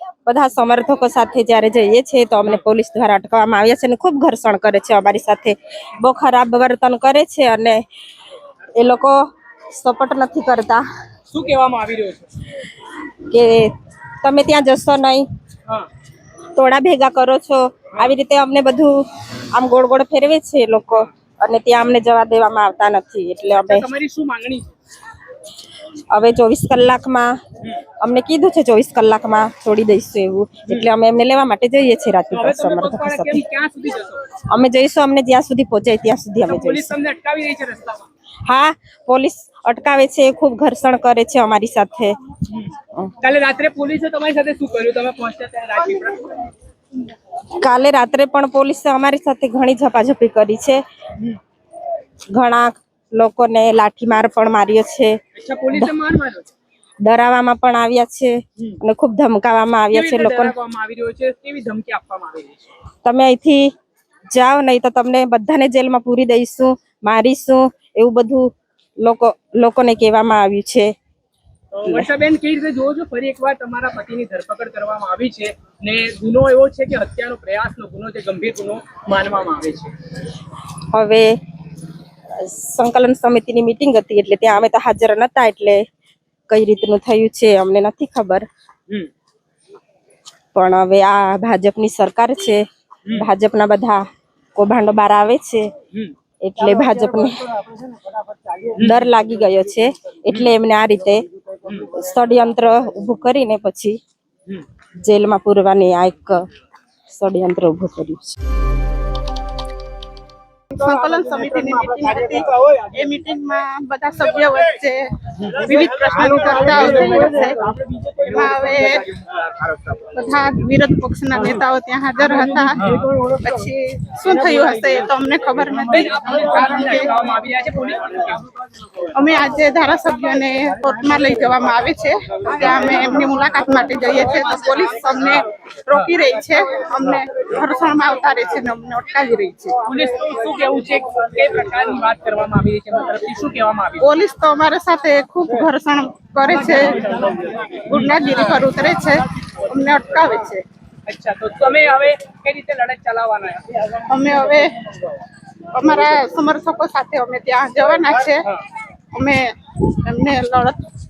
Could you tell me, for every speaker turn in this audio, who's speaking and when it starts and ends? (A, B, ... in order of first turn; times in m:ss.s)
0:00.2-0:07.8 A
0:08.8-0:09.2 A
0:09.7-0:10.8 A
0:11.3-0:12.3 B
0:13.3-0:15.3 A
0:16.5-0:19.0 A
0:19.5-0:23.9 A
0:23.6-0:24.7 B
0:26.1-0:27.3 A
0:28.0-0:33.4 A
0:32.3-0:34.2 B
0:34.5-0:36.9 A
0:36.5-0:38.1 B
0:38.4-0:42.2 A
0:42.5-0:46.5 B
0:47.6-0:50.8 A
0:52.3-0:55.2 A
0:55.4-0:56.5 B
0:57.0-1:00.5 A
0:59.9-1:02.7 B
1:03.0-1:03.7 A
1:04.3-1:10.9 A
1:11.7-1:19.9 B
1:20.9-1:21.3 A
1:22.4-1:25.8 A
1:26.5-1:28.5 A
1:30.5-1:34.0 A
1:34.6-1:35.7 A
1:36.4-1:37.5 A
1:38.7-1:39.0 B
1:38.7-1:41.2 A
1:41.8-1:44.0 A
1:45.0-1:46.4 A
1:47.1-1:48.4 A
1:50.7-1:59.1 C
1:56.7-1:57.2 B
2:00.0-2:07.1 C
2:02.8-2:03.1 B
2:05.8-2:08.4 B
2:09.1-2:19.8 C
2:19.8-2:24.0 B
2:24.0-2:27.2 C
2:27.1-2:27.5 B
2:27.8-2:30.6 C
2:31.1-2:33.9 B
2:34.1-2:34.8 C
2:35.7-2:38.4 C
2:39.1-2:39.5 C
2:40.0-2:40.8 C